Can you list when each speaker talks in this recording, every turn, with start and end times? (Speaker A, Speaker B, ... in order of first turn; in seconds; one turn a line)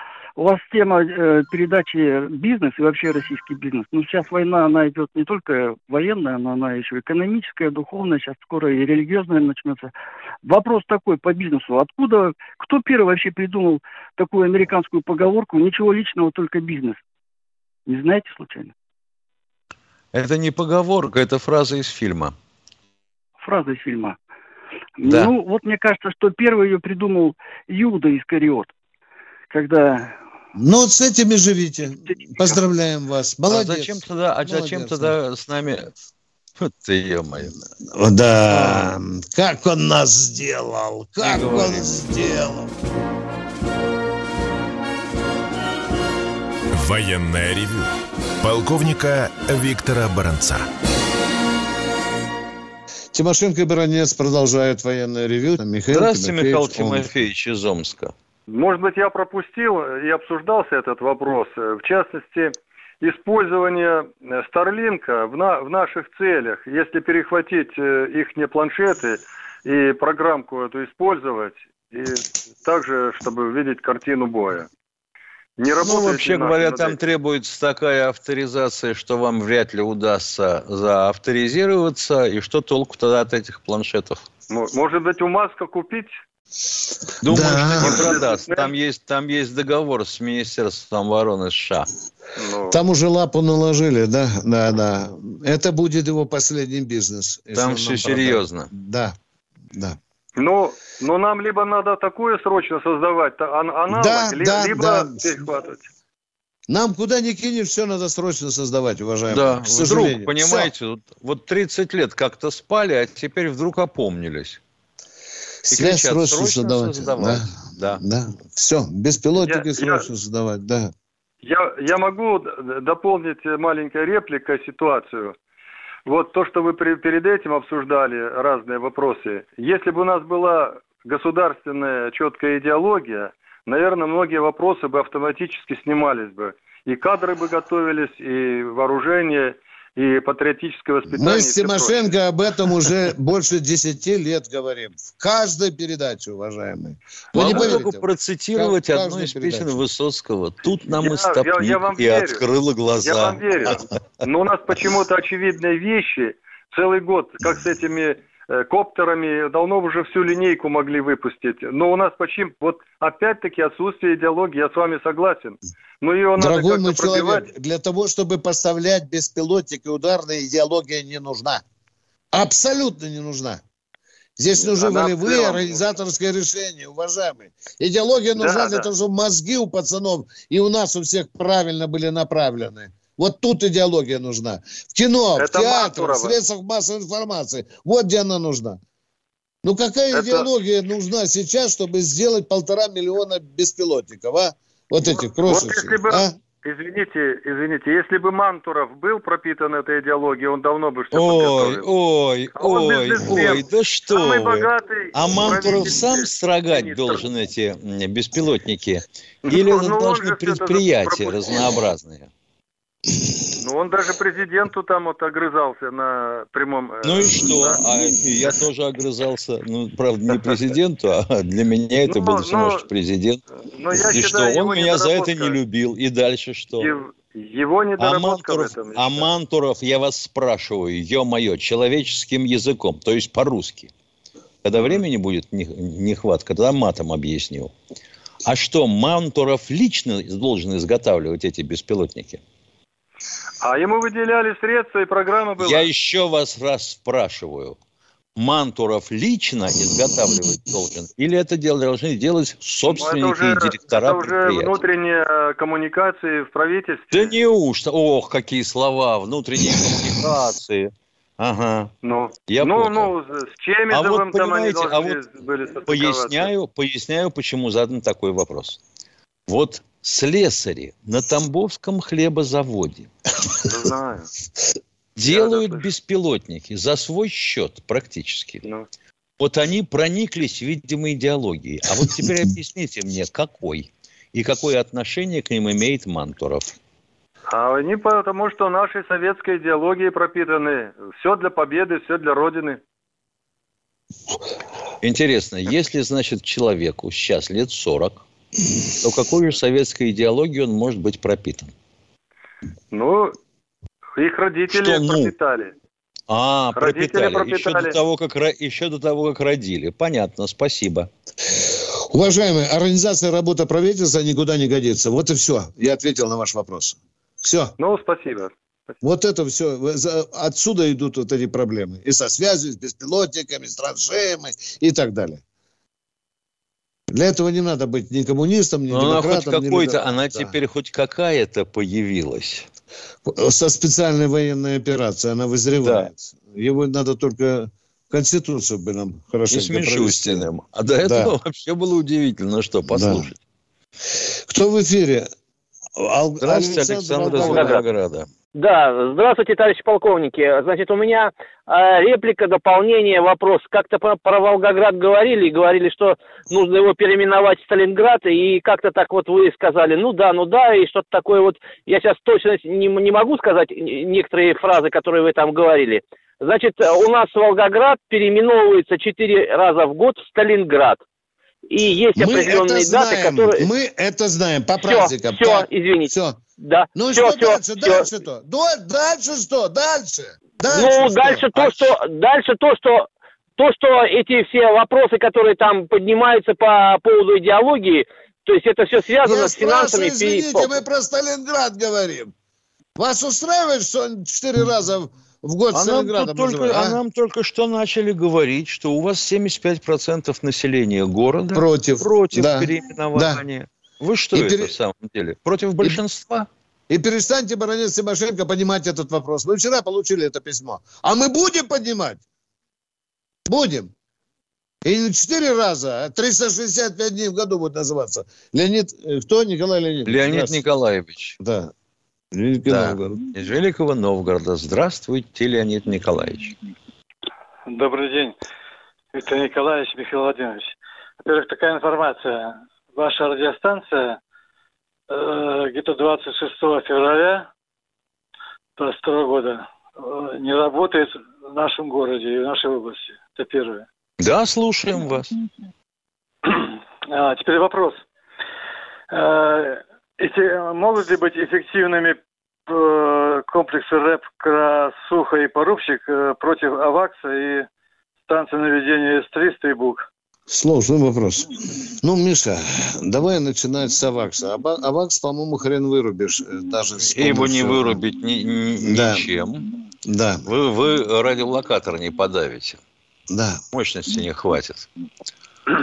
Speaker A: 0.4-9.9
Speaker A: 10.4-17.0
Speaker A: 17.9-18.7
Speaker B: 20.1-22.4
Speaker A: 23.4-24.2
Speaker A: 25.0-28.7
Speaker B: 25.0-25.3
Speaker A: 29.5-30.1
Speaker C: 30.6-35.1
Speaker B: 33.5-35.9
Speaker B: 36.6-37.5
Speaker C: 37.9-42.7
Speaker B: 38.5-38.9
Speaker B: 41.2-42.0
Speaker D: 46.7-50.7
Speaker C: 53.1-57.1
Speaker B: 55.9-58.1
Speaker E: 58.5-74.7
Speaker E: 75.6-77.0
Speaker B: 75.8-84.2
Speaker E: 84.5-86.2
Speaker B: 87.2-91.9
Speaker C: 87.2-88.2
Speaker E: 87.8-88.7
Speaker E: 92.4-92.8
Speaker C: 92.7-99.2
Speaker B: 97.5-98.7
Speaker E: 100.4-105.9
Speaker C: 103.9-105.4
Speaker C: 106.7-110.7
Speaker B: 109.3-114.6
Speaker B: 115.7-118.0
Speaker C: 115.7-120.9
Speaker E: 119.4-120.1
Speaker E: 121.4-125.4
Speaker E: 126.1-142.1
Speaker C: 141.1-149.8
Speaker B: 147.3-153.7
Speaker E: 147.4-147.7
Speaker E: 151.0-152.4
Speaker E: 153.0-167.5
Speaker C: 166.4-171.6
Speaker C: 172.3-173.6
Speaker C: 174.4-188.8
Speaker E: 174.6-175.8
Speaker E: 178.4-178.9
Speaker E: 185.4-186.4
Speaker C: 189.6-196.3
Speaker E: 190.1-190.5
Speaker E: 195.0-201.9
Speaker B: 201.1-212.3
Speaker E: 202.6-207.2
Speaker E: 209.4-211.6
Speaker E: 213.6-217.8
Speaker B: 217.0-223.4
Speaker E: 220.3-220.6
Speaker E: 222.1-222.9
Speaker E: 223.7-225.6
Speaker B: 224.1-226.9
Speaker E: 226.8-229.3
Speaker B: 228.0-233.9
Speaker B: 234.6-237.7
Speaker B: 238.4-242.4
Speaker E: 243.6-245.9
Speaker B: 245.6-247.8
Speaker B: 248.4-254.8
Speaker E: 252.9-257.4
Speaker B: 257.1-261.9
Speaker E: 262.0-266.5
Speaker B: 262.5-263.1
Speaker B: 263.9-265.2
Speaker B: 265.9-268.8
Speaker B: 269.5-273.1
Speaker E: 273.6-274.3
Speaker B: 275.2-278.7
Speaker E: 275.2-275.9
Speaker B: 279.4-286.7
Speaker E: 287.5-292.8
Speaker B: 295.0-298.2
Speaker B: 299.0-301.7
Speaker E: 302.9-303.4
Speaker E: 304.2-305.7
Speaker B: 304.7-305.3
Speaker B: 306.3-311.1
Speaker E: 306.8-308.0
Speaker C: 311.5-317.7
Speaker E: 317.8-318.5
Speaker C: 319.0-325.4
Speaker C: 327.1-330.6
Speaker B: 328.9-332.7
Speaker C: 333.2-340.5
Speaker B: 335.8-336.1
Speaker B: 339.5-343.4
Speaker C: 341.0-341.3
Speaker C: 342.9-343.3
Speaker C: 344.1-345.3
Speaker C: 346.0-347.8
Speaker B: 346.4-348.3
Speaker F: 347.4-347.8
Speaker F: 348.6-371.0
Speaker F: 371.7-373.7
Speaker C: 372.2-376.4
Speaker F: 374.8-378.1
Speaker C: 376.9-381.9
Speaker F: 380.7-390.7
Speaker C: 389.2-392.3
Speaker C: 393.0-397.0
Speaker B: 395.7-406.5
Speaker C: 401.5-403.4
Speaker C: 404.3-404.7
Speaker C: 406.9-412.2
Speaker C: 413.5-413.9
Speaker C: 414.8-420.6
Speaker B: 420.1-421.4
Speaker C: 421.4-421.7
Speaker C: 422.3-423.2
Speaker B: 422.7-426.5
Speaker G: 427.7-428.4
Speaker G: 429.1-430.7
Speaker G: 431.2-434.2
Speaker G: 435.1-437.4
Speaker G: 438.8-443.9
Speaker B: 444.2-445.3
Speaker G: 446.5-448.0
Speaker G: 449.1-457.7
Speaker G: 458.3-460.1
Speaker C: 460.5-468.0
Speaker B: 467.0-469.7
Speaker C: 468.8-469.3
Speaker C: 470.1-470.4
Speaker B: 470.4-472.8
Speaker C: 473.3-473.6
Speaker B: 473.7-474.9